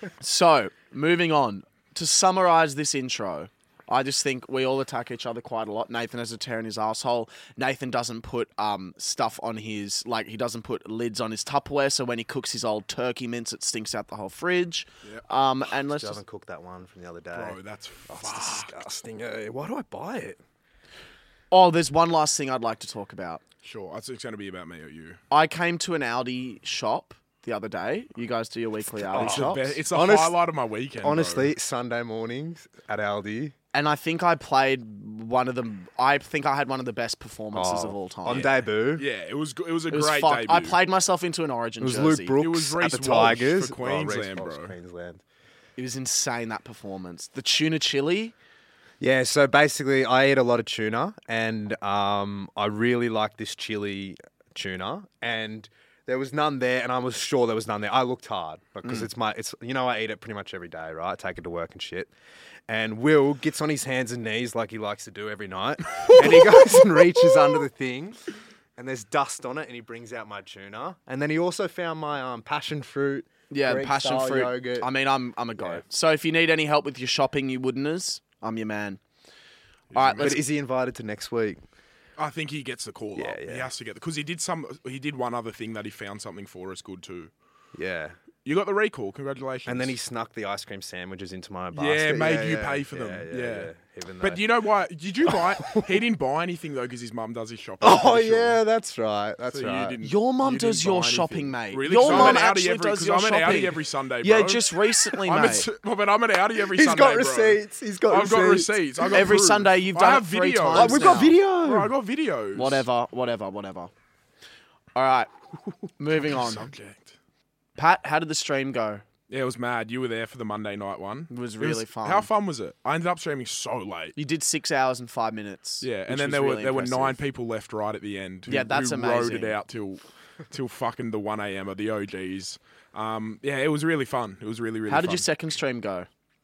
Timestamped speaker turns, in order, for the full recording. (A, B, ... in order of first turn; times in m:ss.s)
0:00.2-0:16.2 A
0:15.8-0:17.6 B
0:17.3-0:18.9 C
0:18.1-0:20.4 B
0:21.5-0:23.4 A
0:23.6-0:25.2 C
0:25.3-0:29.8 A
0:29.1-0:31.5 C
0:29.1-0:30.4 B
0:31.0-0:33.5 B
0:33.7-0:38.6 A
0:37.5-0:39.1 B
0:38.3-0:40.8 C
0:39.9-0:42.4 A
0:41.8-0:45.2 B
0:42.4-0:44.7 C
0:45.8-0:48.3 A
0:49.0-1:02.1 B
1:02.7-1:08.2 B
1:06.0-1:06.6 C
1:08.8-1:14.9 B
1:13.5-1:19.0 A
1:19.9-1:20.4 C
1:19.9-1:20.4 A
1:20.2-1:21.6 B
1:22.2-1:27.3 C
1:23.2-1:23.7 B
1:27.7-1:28.2 B
1:28.4-1:29.9 C
1:29.6-1:34.4 B
1:31.7-1:38.6 C
1:35.3-1:35.9 B
1:37.8-1:40.0 B
1:39.5-1:52.8 C
1:40.0-1:45.7 A
1:42.0-1:42.4 B
1:46.6-1:48.7 B
1:49.0-1:51.3 A
1:50.7-1:51.9 B
1:52.5-1:53.9 A
1:54.9-1:55.3 A
1:56.0-1:56.6 A
1:56.3-1:57.1 C
1:57.8-1:59.0 A
1:59.3-2:04.2 C
2:01.3-2:02.3 A
2:04.2-2:07.2 A
2:05.8-2:15.3 C
2:08.5-2:09.6 A
2:14.9-2:16.1 A